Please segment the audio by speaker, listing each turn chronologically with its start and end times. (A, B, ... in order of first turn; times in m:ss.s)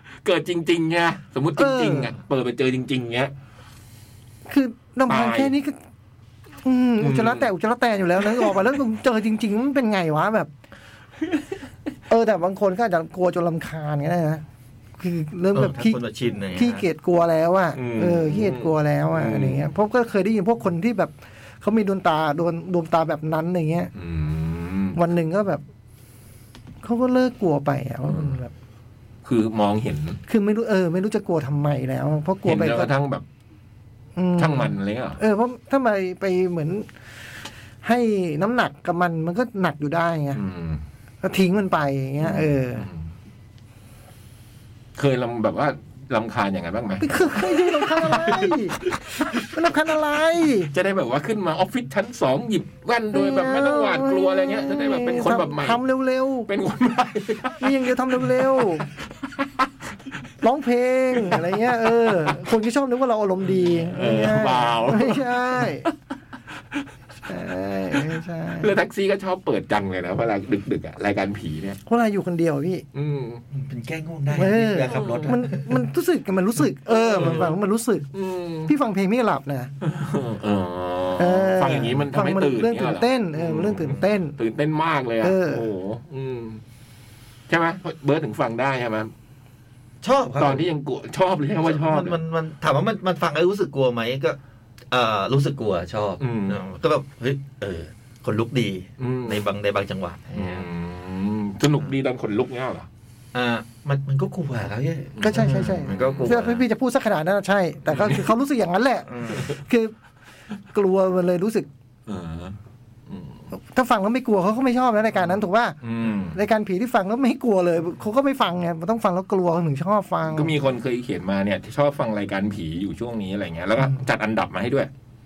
0:00.2-0:03.3 A
0:01.6-0:02.1 B
0:04.5-0:05.8 B
0:05.1-0:05.5 A
0:06.6-0:10.5 B
0:07.0-0:07.5 A
0:12.1-0:14.4 B
0:15.0-0:16.0 B
0:15.5-0:16.8 C
0:16.5-0:23.9 B
0:17.7-0:19.6 A
0:23.9-0:25.0 A
0:24.9-0:25.6 B
0:26.8-0:28.5 B
0:28.1-0:28.4 A
0:29.2-0:30.2 A
0:30.3-0:32.9 B
0:32.4-0:33.2 A
0:34.2-0:36.9 B
0:34.4-0:35.2 A
0:37.8-0:40.4 B
0:40.3-0:40.8 A
0:41.2-0:42.9 B
0:42.2-0:43.0 A
0:45.0-0:48.7 A
0:47.0-0:48.8 B
0:49.2-0:49.4 A
0:49.4-0:50.7 B
0:50.7-0:55.8 A
0:53.1-0:56.5 B
0:56.5-0:59.7 A
0:57.6-0:58.9 B
1:00.4-1:05.9 B
1:01.1-1:02.4 A
1:03.6-1:05.9 A
1:07.3-1:08.7 B
1:08.6-1:11.8 A
1:11.9-1:12.8 B
1:12.9-1:13.4 A
1:13.5-1:15.8 C
1:14.3-1:18.1 B
1:14.9-1:15.4 A
1:16.9-1:17.6 A
1:18.1-1:18.7 A
1:18.6-1:19.7 B
1:19.8-1:26.6 A
1:21.2-1:24.4 B
1:25.2-1:25.6 B
1:27.5-1:29.1 A
1:30.0-1:30.7 C
1:30.4-1:32.2 A
1:31.6-1:34.4 C
1:34.9-1:40.6 C
1:36.2-1:36.6 A
1:39.0-1:39.4 A
1:40.3-1:42.9 A
1:43.3-1:46.6 C
1:45.2-1:46.6 A
1:45.2-1:49.9 B
1:47.9-1:48.2 A
1:49.1-1:49.5 C
1:50.7-1:51.7 B
1:52.0-1:52.6 A
1:53.1-1:53.4 A
1:53.5-1:55.8 B
1:55.2-1:56.4 A
1:56.3-2:00.5 B
2:00.2-2:04.9 A